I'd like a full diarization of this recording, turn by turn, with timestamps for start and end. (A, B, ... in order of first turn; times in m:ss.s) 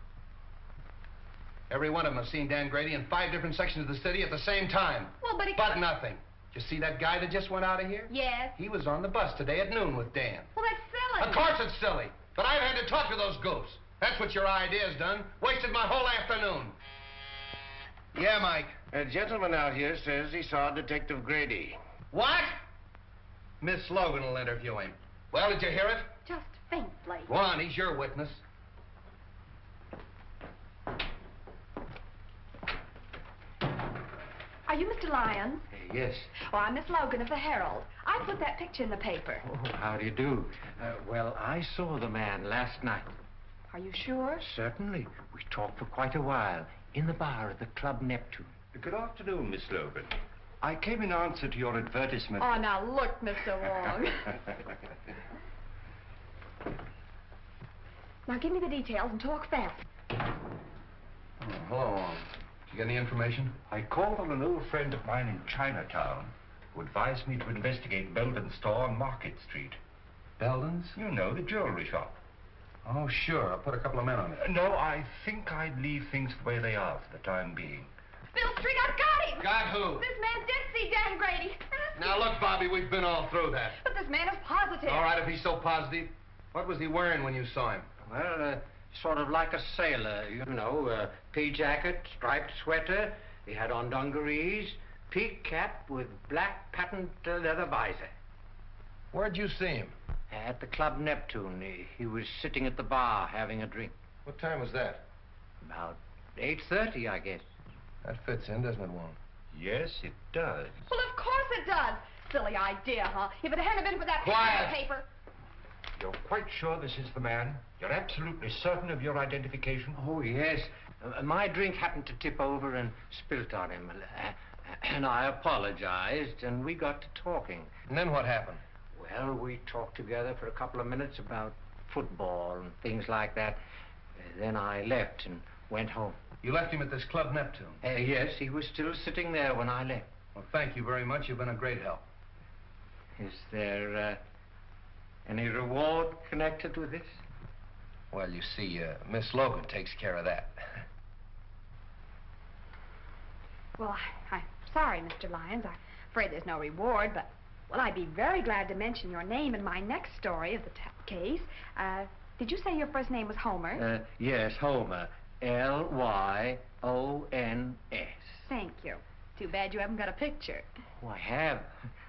0:01.7-0:10.5 A
0:05.2-0:05.8 B
0:08.1-0:08.6 B
0:10.6-0:11.5 B
0:11.2-0:16.8 A
0:18.1-0:18.8 A
0:18.9-0:21.8 C
0:22.1-0:22.6 A
0:23.6-0:26.2 A
0:26.2-0:27.3 B
0:27.3-0:28.4 A
0:34.7-0:35.7 B
0:35.9-0:36.3 A
0:36.3-0:39.4 B
0:39.5-0:43.1 D
0:43.7-0:44.5 B
0:44.5-0:48.5 D
0:48.7-0:52.6 E
0:52.4-0:54.4 B
0:58.3-0:59.8 B
1:01.4-1:03.6 A
1:03.7-1:09.8 E
1:10.4-1:11.0 A
1:11.0-1:12.2 E
1:12.8-1:14.4 A
1:14.4-1:17.9 E
1:18.3-1:22.3 B
1:19.4-1:20.1 A
1:22.0-1:23.8 A
1:23.8-1:25.1 B
1:24.8-1:27.9 A
1:28.0-1:38.1 D
1:39.1-1:39.9 A
1:40.3-1:43.9 D
1:44.2-1:45.0 A
1:45.6-1:47.4 D
1:48.0-1:49.2 A
1:49.5-1:50.7 E
1:50.9-1:55.1 B
1:54.2-1:54.8 A
1:56.0-2:00.0 E
2:00.0-2:07.7 D
2:07.9-2:08.6 A
2:09.0-2:13.6 D
2:14.2-2:16.2 D
2:16.4-2:17.8 A
2:17.8-2:20.0 D
2:20.4-2:22.0 A
2:23.2-2:24.2 D
2:25.3-2:27.1 D
2:28.1-2:30.8 A
2:33.8-2:43.8 B
2:43.8-2:48.2 D
2:48.4-2:50.7 B
2:51.0-2:51.5 D